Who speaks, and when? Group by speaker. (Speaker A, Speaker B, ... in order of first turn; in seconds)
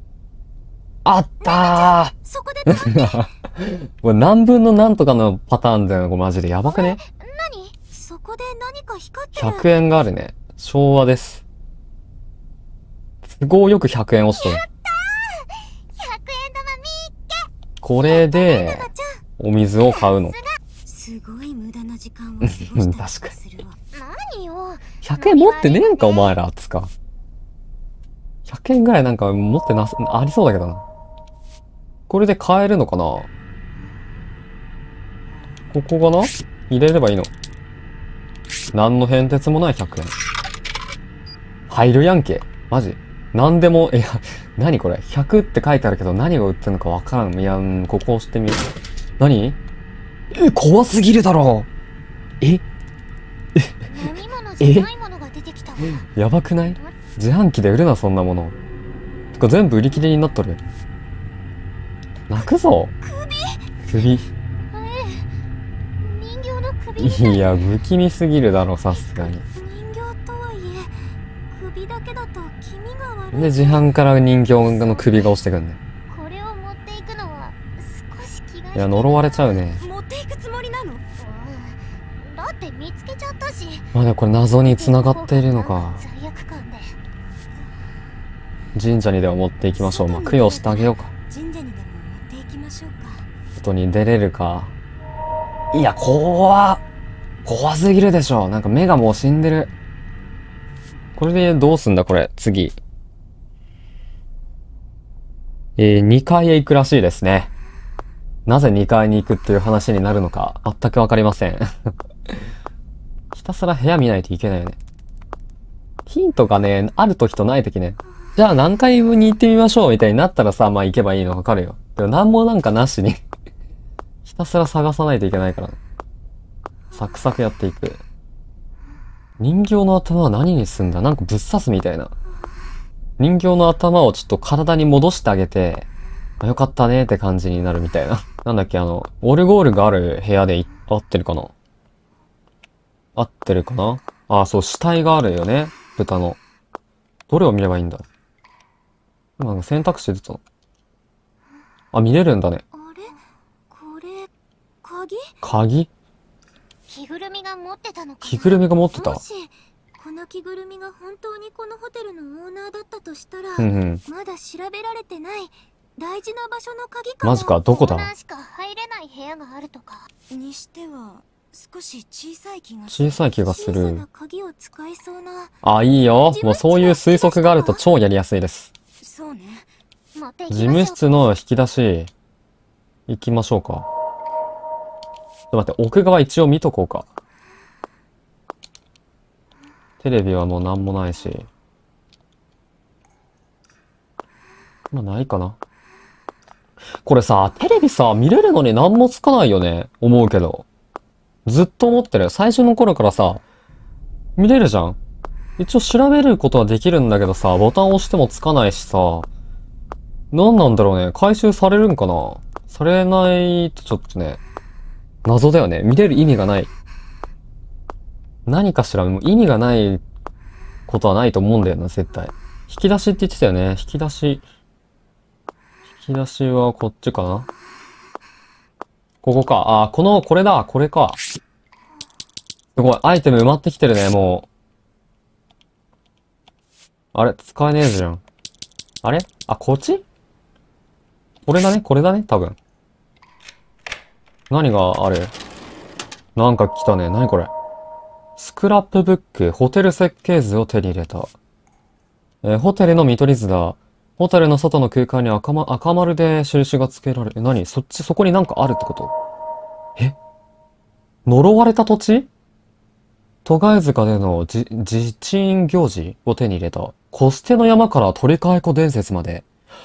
Speaker A: 1.1-2.1, 2.7-7.0, 9.4-11.4, 13.3-14.6, 17.8-20.4, 22.4-23.3, 25.0-26.9, 28.5-30.9, 32.1-33.3, 35.7-37.3, 38.7-40.1, 41.7-48.7, 49.2-49.6, 50.3-51.7, 54.6-54.9, 56.1-58.6, 59.4-60.6, 62.3-62.9, 63.9-64.3, 67.0-69.4, 73.3-75.8, 78.8-79.8, 83.9-86.0, 88.7-91.1, 93.6-94.7, 95.7-96.8, 97.5-99.7, 101.2-102.8, 105.8-107.5, 108.5-111.7, 113.3-114.8, 116.1-123.2, 124.2-125.8, 126.9-128.0, 129.4-132.1, 133.2-135.9, 136.4-141.5, 143.2-146.4, 147.3-148.1, 149.4-150.4, 151.9-152.6, 155.4-155.9, 158.2-159.2, 163.6-164.0, 167.2-168.1, 172.9-174.0, 175.6-178.7, 180.5-182.1, 183.1-183.9, 185.5-187.1, 190.0-191.5, 194.9-195.6, 197.0-200.7, 201.4-203.4, 204.4-205.0, 205.6-209.3, 210.3-214.4, 215.2-216.7, 218.5-220.0, 220.9-224.4, 226.0-227.5, 229.2-231.2, 232.8-234.5, 237.1-238.2, 239.0-240.0, 241.5-242.6, 244.5-245.3, 246.4-247.5, 248.4-251.3, 252.4-259.1, 261.3-262.3, 263.4-269.4
Speaker B: 1.4-3.3, 6.7-7.8, 9.1-9.5, 14.4-17.5, 18.0-19.1, 19.9-20.6, 23.9-26.3, 53.9-56.1, 63.1-63.4, 64.7-65.3, 66.0-67.7, 69.1-69.6, 76.1-79.6, 81.2-83.9, 84.6-87.0, 152.7-153.2, 156.9-159.5, 167.2-170.1, 176.3-177.8, 180.2-181.2
Speaker C: 7.9-9.0, 20.9-23.8, 69.6-70.9, 71.5-73.8, 79.8-81.0, 89.8-93.3, 153.7-154.3, 154.8-155.2, 160.0-163.4, 164.1-167.4, 170.3-175.5, 179.0-179.7